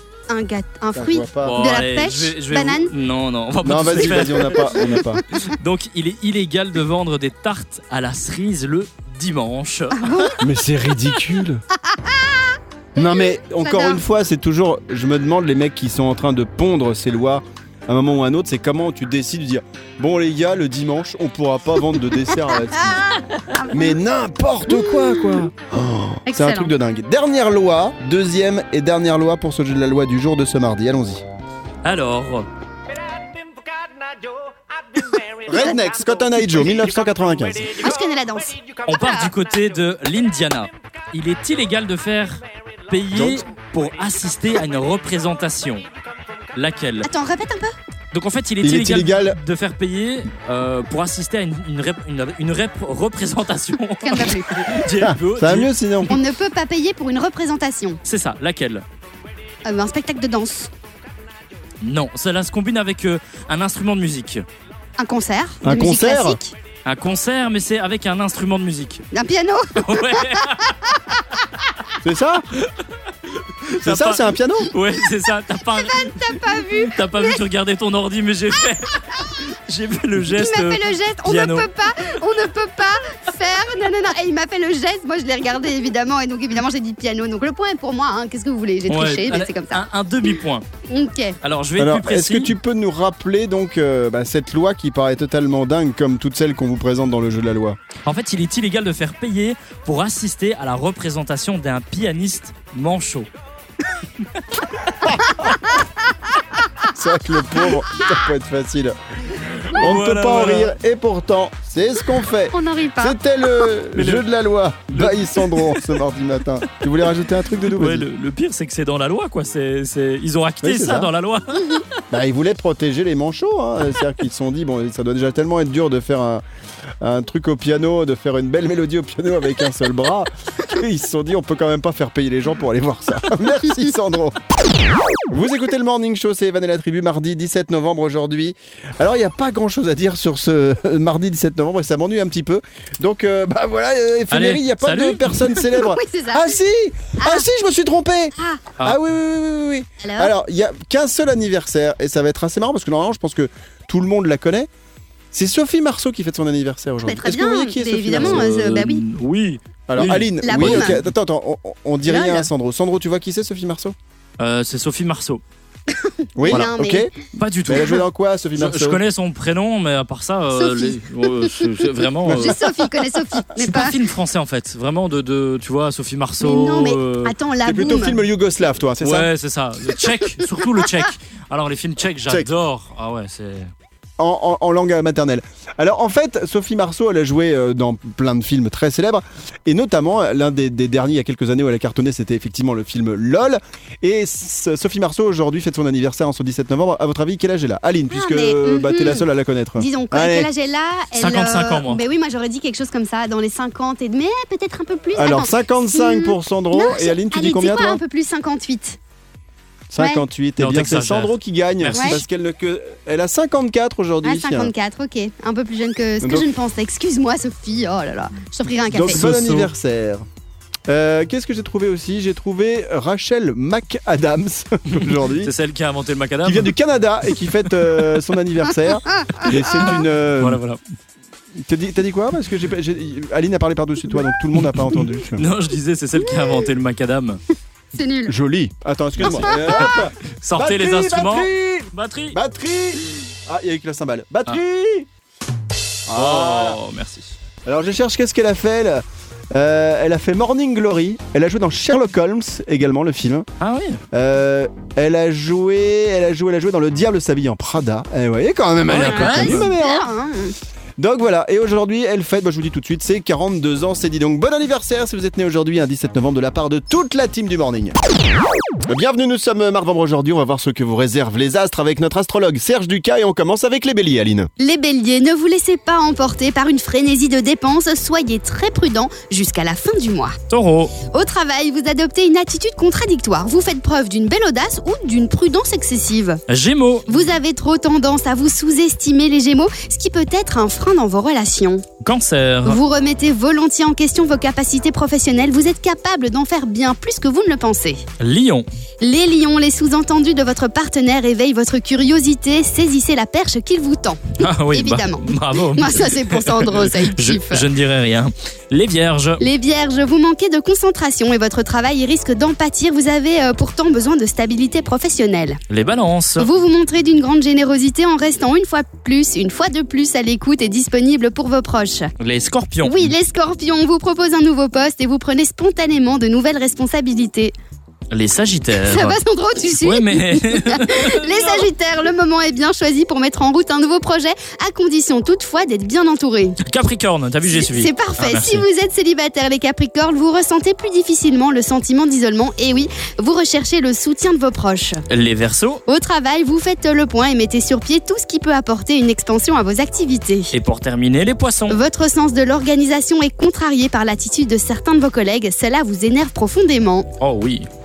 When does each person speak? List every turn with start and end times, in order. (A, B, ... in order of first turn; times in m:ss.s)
0:00.3-0:02.9 A
0:00.9-0:01.6 B
0:01.4-0:04.9 C
0:03.6-0:05.2 B
0:05.5-0:10.3 C
0:10.0-0:10.4 A
0:10.4-0:11.6 B
0:11.9-0:14.0 A
0:13.0-0:31.2 B
0:23.6-0:23.9 A
0:24.7-0:25.4 A
0:26.3-0:26.7 A
0:31.8-0:32.5 C
0:35.5-0:37.9 B
0:35.5-0:35.8 A
0:37.8-0:39.3 A
0:38.9-0:45.8 C
0:43.1-0:43.5 B
0:46.6-0:47.1 C
0:47.0-0:47.7 A
0:48.1-0:56.2 C
0:48.6-0:49.4 B
0:54.0-0:54.6 A
0:55.0-0:56.2 B
0:56.1-0:58.0 A
0:58.0-0:58.8 C
0:59.6-1:00.7 A
1:01.8-1:04.4 C
1:05.0-1:06.6 A
1:05.6-1:06.4 B
1:06.8-1:09.0 C
1:09.1-1:11.0 A
1:09.8-1:10.8 C
1:12.0-1:12.5 B
1:13.3-1:21.7 C
1:13.8-1:14.7 B
1:15.7-1:17.4 A
1:20.4-1:29.8 A
1:28.9-1:30.6 C
1:30.9-1:31.4 A
1:31.4-1:32.5 C
1:31.8-1:37.8 B
1:38.0-1:43.3 C
1:46.9-1:49.0 B
1:49.7-1:50.7 C
1:49.7-1:58.1 B
1:52.5-1:53.2 A
1:53.9-1:54.3 C
1:54.9-1:56.0 C
1:57.7-2:01.8 C
2:00.6-2:01.1 B
2:02.1-2:06.4 B
2:07.0-2:14.4 B
2:15.3-2:34.7 B
2:24.3-2:25.6 C
2:25.7-2:26.6 A
2:27.2-2:27.4 A
2:28.4-2:28.6 A
2:30.0-2:30.3 A
2:35.3-2:38.4 B
2:37.0-2:39.0 A
2:38.2-2:41.1 C
2:39.9-2:44.0 B
2:40.4-2:41.0 A
2:42.1-2:42.5 A
2:44.4-2:45.4 C
2:45.9-2:47.1 A
2:46.4-2:47.1 B
2:47.3-2:48.0 C
2:47.6-2:49.0 B
2:48.6-2:52.9 C
2:50.5-2:51.7 A
2:52.2-2:52.5 B
2:52.3-2:53.9 A
2:53.6-2:57.4 C
2:56.4-2:58.2 A
2:57.6-2:59.3 B
2:59.0-3:03.7 C
3:04.2-3:20.5 B
3:18.1-3:29.0 A
3:21.2-3:22.0 C
3:25.2-3:28.0 B
3:29.9-3:34.7 B
3:30.0-3:30.2 A
3:30.6-3:32.2 C
3:31.9-3:32.2 A
3:34.2-3:39.2 A
3:36.2-3:36.5 B
3:38.9-3:40.3 B
3:39.1-3:39.7 C
3:40.9-3:45.5 B
3:44.9-3:46.7 C
3:46.4-3:50.6 B
3:49.2-3:49.9 A
3:49.8-3:50.8 C
3:51.6-3:55.5 B
3:54.8-3:57.4 C
3:57.9-3:58.3 A
3:58.3-4:05.1 B
3:59.2-4:02.4 C
3:59.3-3:59.8 A
4:06.1-4:06.8 B
4:06.1-4:07.3 C
4:07.7-4:13.5 B
4:13.6-4:14.0 C
4:14.1-4:20.1 B
4:18.9-4:19.7 C
4:19.0-4:20.6 A
4:21.0-4:28.0 B
4:28.8-4:34.5 B
4:34.6-4:40.4 A
4:40.5-4:40.9 C
4:41.1-4:46.4 A
4:46.5-4:47.1 C
4:47.1-4:51.8 A
4:52.0-4:52.8 C
4:52.6-4:58.0 A
4:58.2-4:58.7 C
4:59.0-5:07.7 A
5:04.4-5:09.4 C
5:09.4-5:15.6 A
5:15.7-5:16.5 C
5:16.4-5:22.1 A
5:22.2-5:23.1 C
5:22.8-5:27.5 A
5:28.1-5:31.7 C
5:28.8-5:36.6 A
5:36.6-5:38.6 C
5:37.5-5:45.0 A
5:45.1-5:45.8 C
5:45.9-5:50.5 A
5:50.5-5:51.8 C
5:51.7-5:57.1 A
5:57.2-5:57.7 C